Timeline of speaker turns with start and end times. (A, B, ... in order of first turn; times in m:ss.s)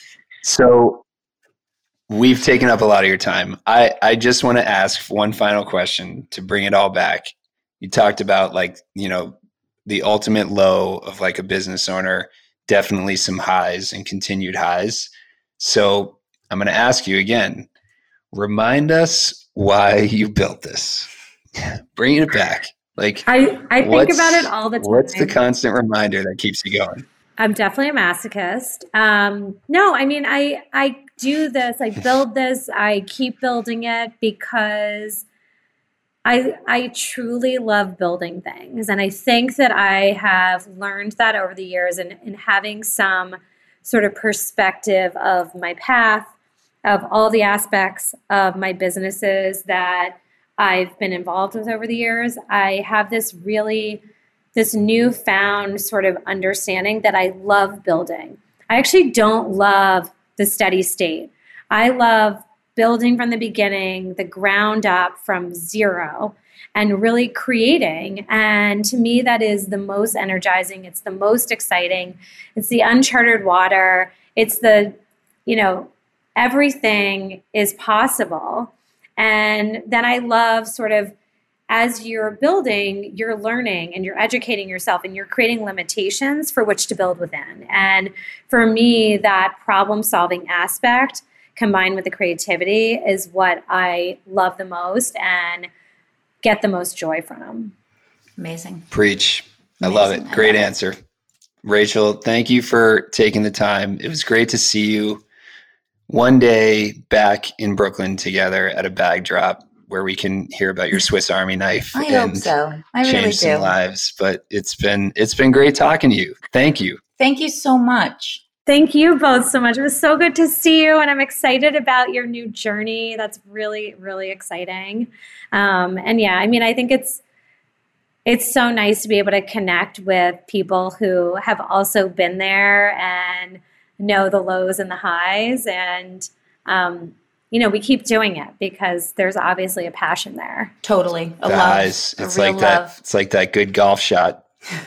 0:00.4-0:01.0 A
0:02.1-0:17.7 A
0:18.3-0:23.2 A
0:23.3-0:25.4 B
0:23.8-0:27.0 A
0:27.4-0:35.2 B
0:36.2-0:46.3 B
0:46.8-0:54.0 B
0:54.5-1:21.1 B
1:21.7-1:35.7 B
1:36.4-1:37.7 B
1:38.4-1:38.8 C
1:38.9-1:41.0 A
1:39.8-1:40.6 C
1:41.6-1:45.2 A
1:46.1-1:52.5 A
1:51.9-1:53.7 C
1:53.0-1:57.0 A
1:57.2-1:58.4 C
1:58.7-2:07.2 B
2:08.2-2:20.7 B
2:20.8-2:23.0 C
2:21.4-2:24.4 A